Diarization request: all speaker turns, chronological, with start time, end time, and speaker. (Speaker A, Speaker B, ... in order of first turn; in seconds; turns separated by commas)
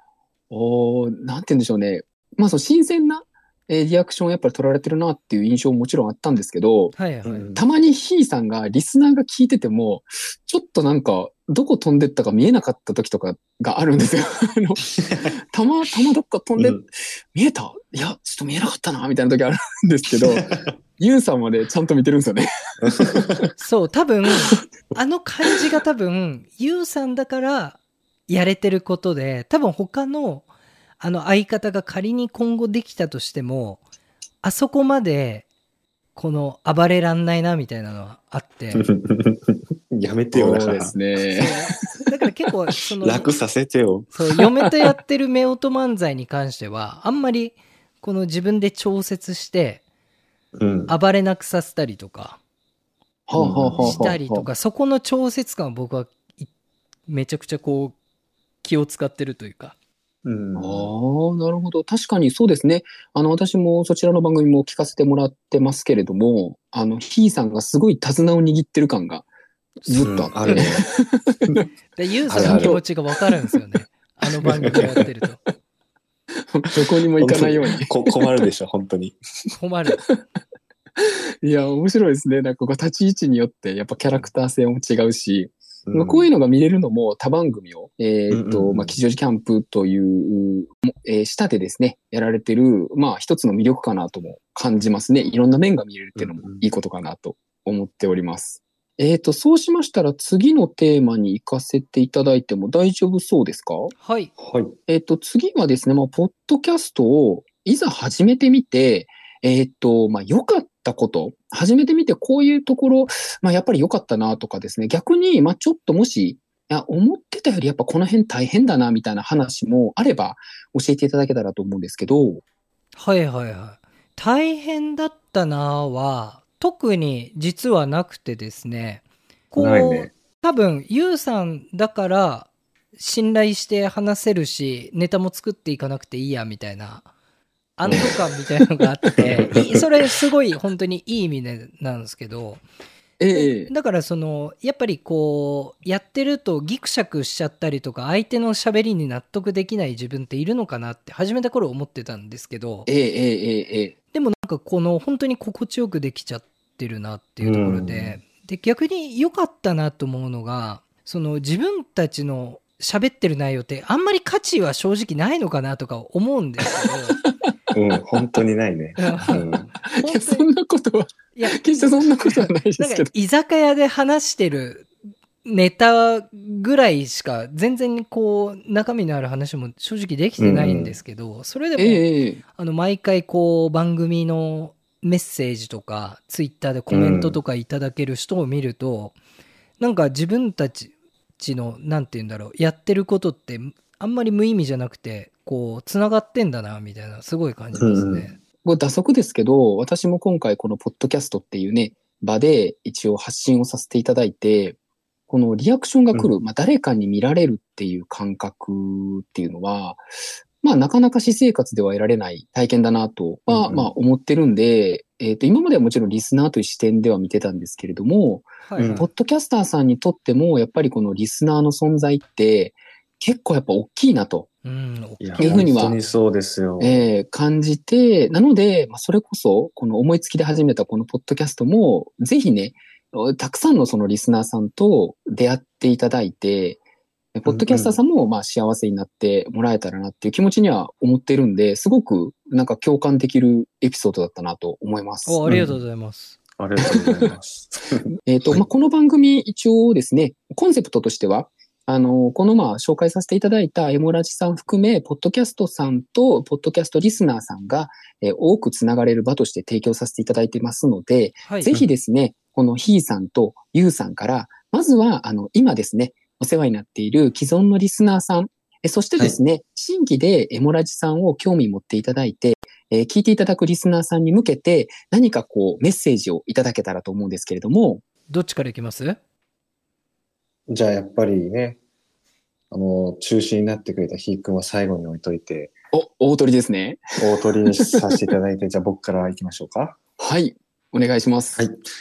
Speaker A: 0.5-7.0, Speaker B: 7.0-7.5, Speaker C: 7.2-7.6, Speaker A: 7.5-23.5, Speaker C: 16.6-16.9, Speaker C: 20.2-20.7, Speaker C: 23.1-23.5, Speaker B: 23.6-30.4, Speaker B: 31.0-33.8, Speaker B: 34.4-35.5, Speaker B: 36.1-38.9, Speaker C: 38.8-41.0, Speaker A: 40.3-41.9, Speaker B: 41.3-43.3, Speaker C: 43.0-44.1, Speaker B: 44.1-49.8, Speaker C: 50.5-51.0, Speaker B: 50.9-52.4, Speaker A: 53.3-54.5, Speaker C: 53.4-54.1, Speaker B: 53.8-56.5, Speaker B: 57.1-58.0, Speaker B: 58.6-59.8, Speaker C: 60.2-60.9, Speaker A: 60.6-69.3, Speaker B: 69.8-70.7, Speaker A: 69.9-71.6, Speaker C: 70.0-70.8, Speaker B: 72.0-75.4, Speaker C: 72.3-72.8, Speaker A: 72.4-72.8, Speaker C: 74.5-74.9, Speaker A: 76.5-78.5, Speaker C: 76.8-79.2, Speaker B: 79.5-80.0, Speaker A: 81.0-103.9, Speaker C: 85.9-86.3, Speaker C: 88.3-89.0, Speaker C: 96.2-96.6, Speaker B: 104.0-104.3, Speaker C: 104.4-104.8, Speaker A: 104.9-122.4, Speaker B: 123.0-137.1, Speaker C: 129.6-130.1, Speaker B: 137.8-142.6, Speaker C: 139.2-139.8, Speaker A: 143.2-143.7, Speaker B: 143.3-152.9, Speaker A: 152.9-153.9, Speaker B: 154.1-167.2, Speaker C: 157.4-158.2, Speaker A: 166.8-167.3, Speaker C: 167.7-169.7, Speaker B: 169.0-170.5, Speaker A: 169.9-173.1, Speaker B: 171.3-174.9, Speaker B: 175.4-182.0, Speaker C: 180.4-181.0, Speaker A: 181.8-182.4, Speaker B: 182.5-189.2, Speaker C: 186.9-187.4, Speaker B: 189.8-198.4, Speaker C: 197.8-198.3, Speaker A: 198.6-204.8, Speaker A: 205.3-210.1, Speaker A: 210.6-224.5, Speaker C: 213.5-213.9, Speaker B: 218.6-219.1, Speaker C: 218.8-219.1, Speaker B: 224.6-226.1, Speaker C: 225.2-227.1, Speaker A: 225.4-226.0, Speaker A: 226.8-236.8, Speaker A: 237.3-245.7, Speaker C: 237.5-238.0, Speaker B: 245.3-246.4, Speaker C: 246.6-248.6, Speaker A: 247.0-247.3, Speaker A: 248.3-278.0, Speaker B: 261.4-261.7, Speaker B: 278.3-279.2, Speaker C: 280.7-281.8, Speaker C: 282.7-285.7, Speaker A: 285.9-287.0, Speaker C: 287.2-290.0, Speaker A: 290.2-291.6